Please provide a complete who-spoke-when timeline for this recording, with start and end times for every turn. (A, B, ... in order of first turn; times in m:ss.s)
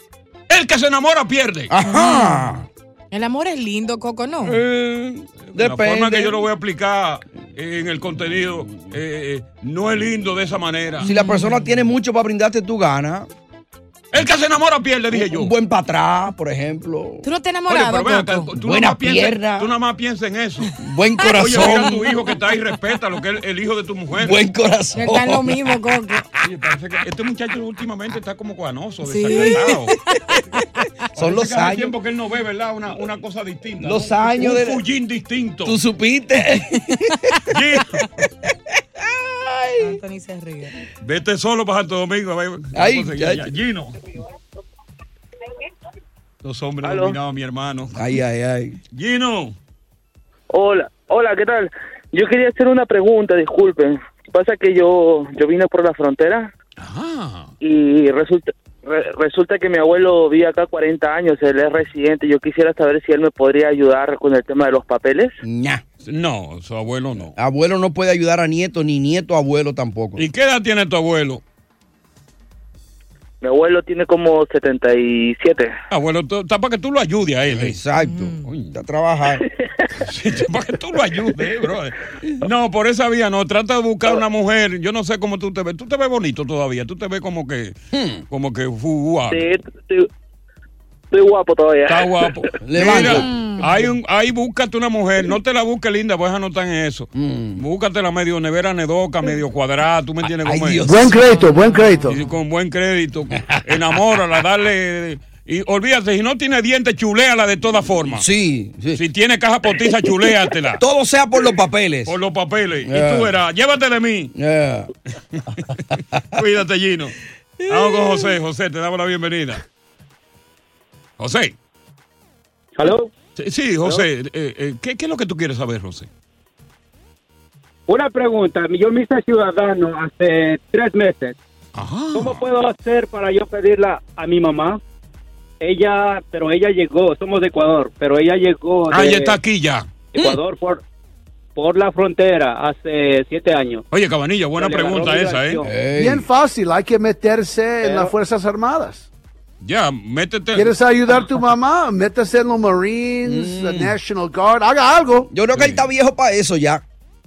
0:00.5-0:01.7 A
0:01.7-0:02.7 B
0:01.8-0:02.5 C
0:03.1-0:04.6 C
0:04.4-0:06.4 B
0:05.5-0:11.0 A
0:11.0-0:13.3 B
0:11.0-0:11.7 C
0:14.1-0:15.5 A
0:15.1-0:17.2 B
0:17.2-0:18.5 C
0:17.7-0:20.7 A
0:18.6-0:19.7 B
0:20.8-0:22.1 B
0:21.2-0:22.0 C
0:21.3-0:24.4 A
0:24.2-0:25.7 B
0:25.0-0:26.2 C
0:26.4-0:30.0 A
0:29.0-0:29.8 C
0:30.3-0:30.6 C
0:31.2-0:31.9 B
0:31.2-0:35.8 A
0:33.8-0:34.8 B
0:35.6-0:37.3 B
0:37.5-0:38.1 A
0:39.0-0:40.0 B
0:39.8-0:40.7 C
0:41.0-0:43.9 A
0:42.7-0:43.5 B
0:46.4-0:48.0 A
0:46.8-0:47.2 D
0:47.9-0:48.8 B
0:48.9-0:49.5 A
0:50.5-0:56.5 D
0:56.8-0:57.5 A
0:57.6-1:05.4 D
1:05.4-1:05.8 B
1:06.0-1:07.3 A
1:07.3-1:10.2 B
1:10.2-1:11.4 A
1:13.4-1:15.7 D
1:15.9-1:17.8 A
1:17.5-1:19.4 B
1:18.0-1:18.5 C
1:18.4-1:18.7 A
1:20.0-1:27.8 A
1:27.9-1:28.2 B
1:28.3-1:29.4 A
1:29.3-1:30.1 D
1:31.1-1:32.4 D
1:31.9-1:40.9 A
1:32.6-1:33.4 B
1:33.3-1:33.6 C
1:37.1-1:37.6 B
1:40.3-1:41.2 B
1:40.8-1:42.2 E
1:41.2-1:42.1 C
1:42.1-1:48.2 A
1:43.4-1:43.8 B
1:48.1-1:49.0 B
1:48.9-1:50.8 A
1:50.8-1:52.1 B
1:52.0-1:54.3 A
1:52.8-1:53.3 B
1:54.3-1:54.9 B
1:56.3-1:57.2 A
1:57.6-1:58.3 B
1:57.7-1:59.6 A
2:01.2-2:01.5 A
2:02.8-2:03.1 F
2:03.4-2:06.1 A
2:07.9-2:11.4 F
2:11.7-2:12.4 A
2:12.1-2:14.8 F
2:15.6-2:19.4 F
2:18.9-2:19.9 A
2:20.1-2:20.8 F
2:21.6-2:23.8 F
2:23.9-2:25.6 A
2:24.6-2:25.7 F
2:25.6-2:26.3 B
2:26.0-2:29.1 E
2:27.8-2:28.1 F
2:29.6-2:30.7 A
2:30.5-2:35.3 E
2:33.2-2:33.9 B
2:35.3-2:36.8 B
2:35.5-2:35.8 A